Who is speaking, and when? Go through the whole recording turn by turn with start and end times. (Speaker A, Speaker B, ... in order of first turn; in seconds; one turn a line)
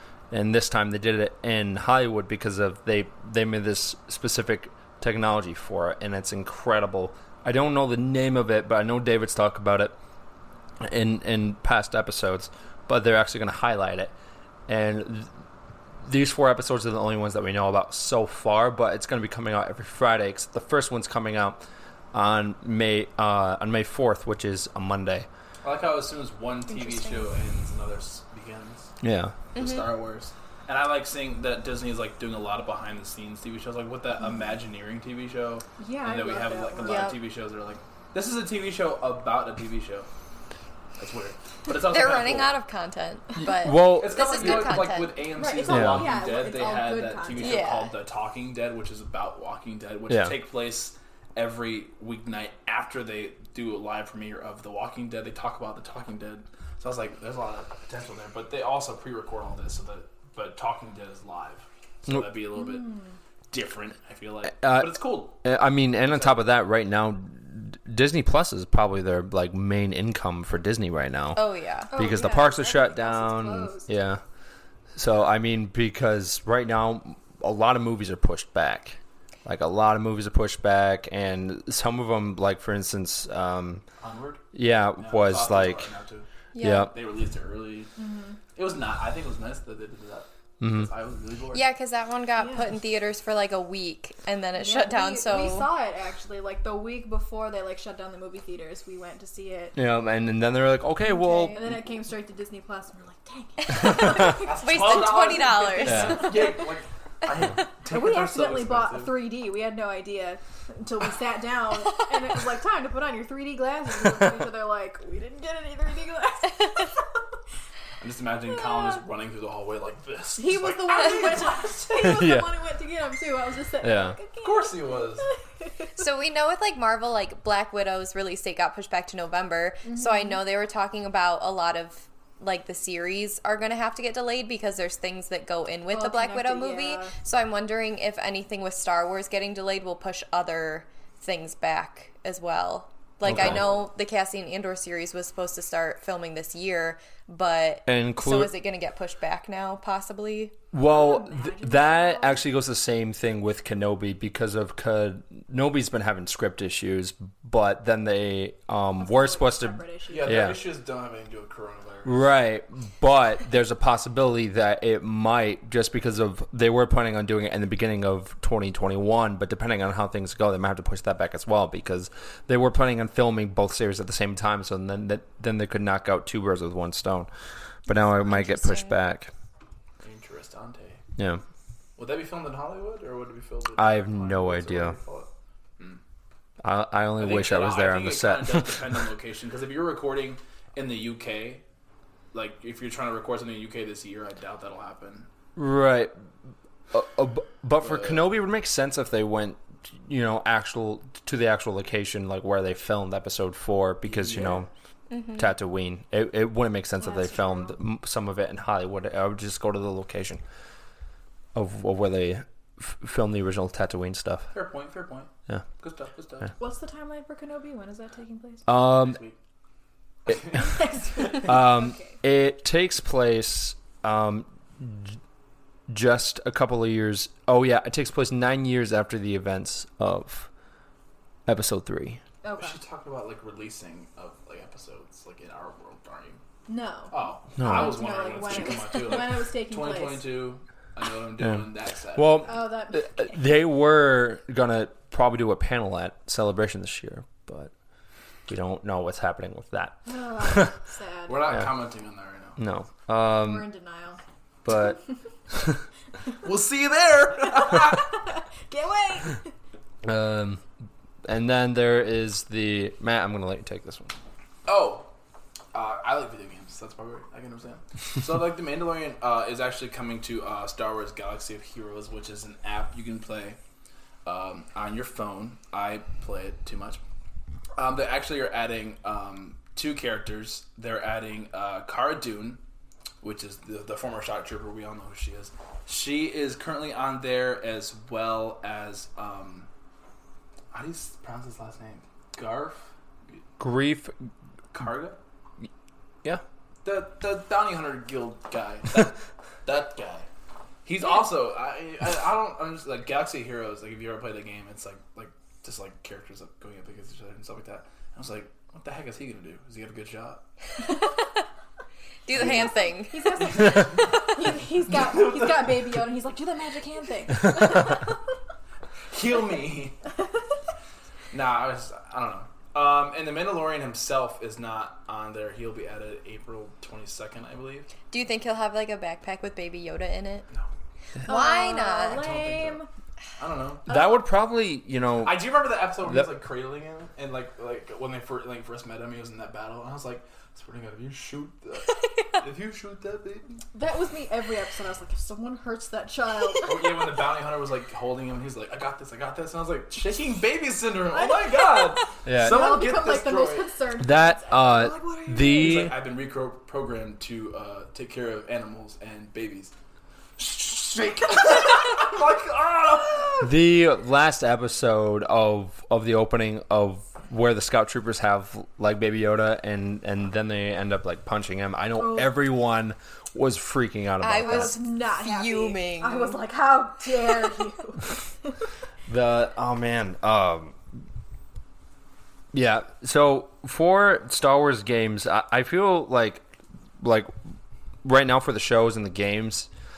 Speaker A: 0.3-9.9
Speaker A: 10.8-14.1
Speaker A: 14.7-15.3
Speaker A: 16.0-21.6
Speaker A: 22.1-25.3
Speaker B: 25.6-28.9
Speaker C: 26.8-27.2
Speaker A: 29.0-29.4
Speaker C: 29.5-29.9
Speaker B: 29.5-40.1
Speaker D: 35.8-37.2
Speaker C: 36.8-37.2
Speaker B: 41.0-42.5
Speaker C: 41.7-45.2
Speaker A: 43.4-44.8
Speaker B: 43.8-62.9
Speaker D: 45.3-47.7
Speaker A: 45.7-46.1
Speaker C: 47.3-47.9
Speaker A: 50.1-50.3
Speaker D: 62.5-63.1
Speaker B: 63.5-65.4
Speaker A: 64.5-71.4
Speaker B: 66.1-66.4
Speaker C: 71.3-72.1
Speaker D: 71.9-73.9
Speaker A: 71.9-74.2
Speaker A: 74.9-83.8
Speaker B: 84.0-84.4
Speaker A: 84.5-85.9
Speaker B: 85.0-87.9
Speaker C: 86.5-86.9
Speaker A: 86.6-86.9
Speaker D: 88.0-88.4
Speaker B: 88.5-91.6
Speaker A: 90.6-90.9
Speaker C: 91.5-95.7
Speaker D: 92.3-92.7
Speaker D: 94.5-99.8
Speaker A: 99.7-101.7
Speaker D: 101.0-106.7
Speaker C: 103.7-106.3
Speaker B: 104.2-109.3
Speaker A: 105.8-106.3
Speaker D: 107.8-117.0
Speaker B: 118.0-121.7
Speaker D: 118.5-119.0
Speaker D: 120.3-126.0
Speaker A: 122.0-122.5
Speaker A: 123.8-124.2
Speaker B: 124.4-125.2
Speaker C: 126.0-150.6
Speaker D: 129.8-130.4
Speaker D: 135.9-137.2
Speaker A: 143.2-143.7
Speaker A: 147.8-148.5
Speaker A: 150.7-160.6
Speaker D: 150.8-152.4
Speaker D: 159.0-160.6
Speaker B: 160.1-162.3
Speaker A: 162.0-177.3
Speaker A: 177.8-179.3
Speaker C: 177.9-179.0
Speaker B: 180.0-181.0
Speaker A: 181.2-181.4
Speaker B: 182.0-186.0
Speaker A: 183.8-185.0
Speaker A: 186.6-188.9
Speaker B: 187.2-191.6
Speaker B: 192.3-195.3
Speaker A: 195.6-196.1
Speaker A: 196.9-204.7
Speaker B: 197.8-198.2
Speaker B: 204.0-204.7
Speaker C: 205.1-205.4
Speaker A: 205.3-210.4
Speaker D: 207.0-207.8
Speaker A: 211.5-214.5
Speaker B: 214.5-216.5
Speaker D: 216.6-218.8
Speaker A: 218.7-219.2
Speaker B: 218.8-219.3
Speaker D: 220.4-222.2
Speaker A: 221.4-225.2
Speaker A: 225.9-230.5
Speaker A: 231.4-232.2
Speaker D: 232.4-232.8
Speaker B: 232.5-236.4
Speaker D: 236.7-240.4
Speaker B: 237.1-242.6
Speaker A: 237.6-238.8
Speaker A: 242.1-247.7
Speaker D: 242.4-243.5
Speaker A: 248.5-250.7
Speaker D: 250.1-251.5
Speaker B: 251.3-252.6
Speaker A: 252.6-253.7
Speaker D: 253.3-254.2
Speaker A: 254.6-255.0
Speaker A: 255.5-255.8
Speaker B: 256.4-258.1
Speaker D: 257.6-259.5
Speaker A: 260.0-260.6
Speaker A: 261.2-264.2
Speaker B: 264.7-265.1
Speaker B: 265.7-273.6
Speaker B: 274.2-277.0
Speaker B: 277.8-282.6
Speaker B: 283.2-289.7
Speaker B: 290.7-293.4
Speaker A: 293.6-294.1
Speaker B: 294.7-295.2
Speaker B: 296.8-300.3
Speaker B: 300.9-310.4
Speaker C: 312.2-313.5
Speaker D: 312.3-318.2
Speaker B: 312.4-312.6
Speaker B: 313.5-314.2
Speaker B: 314.9-316.0
Speaker B: 319.1-319.9
Speaker B: 321.3-327.9
Speaker C: 328.1-330.4
Speaker D: 331.2-332.9
Speaker C: 331.3-332.2
Speaker B: 332.0-332.8
Speaker B: 333.4-333.9
Speaker A: 333.9-335.5
Speaker D: 333.9-334.2
Speaker B: 335.2-343.5
Speaker A: 336.0-336.3
Speaker D: 343.7-347.0
Speaker B: 346.6-353.7
Speaker D: 351.1-355.9
Speaker A: 352.2-352.8
Speaker A: 354.0-355.9
Speaker B: 355.5-359.7
Speaker B: 360.4-363.5
Speaker A: 363.4-374.8
Speaker D: 372.0-372.4
Speaker C: 374.2-376.4
Speaker D: 374.4-378.3
Speaker A: 379.1-380.8
Speaker A: 382.5-386.4
Speaker A: 387.0-387.3
Speaker A: 388.0-389.7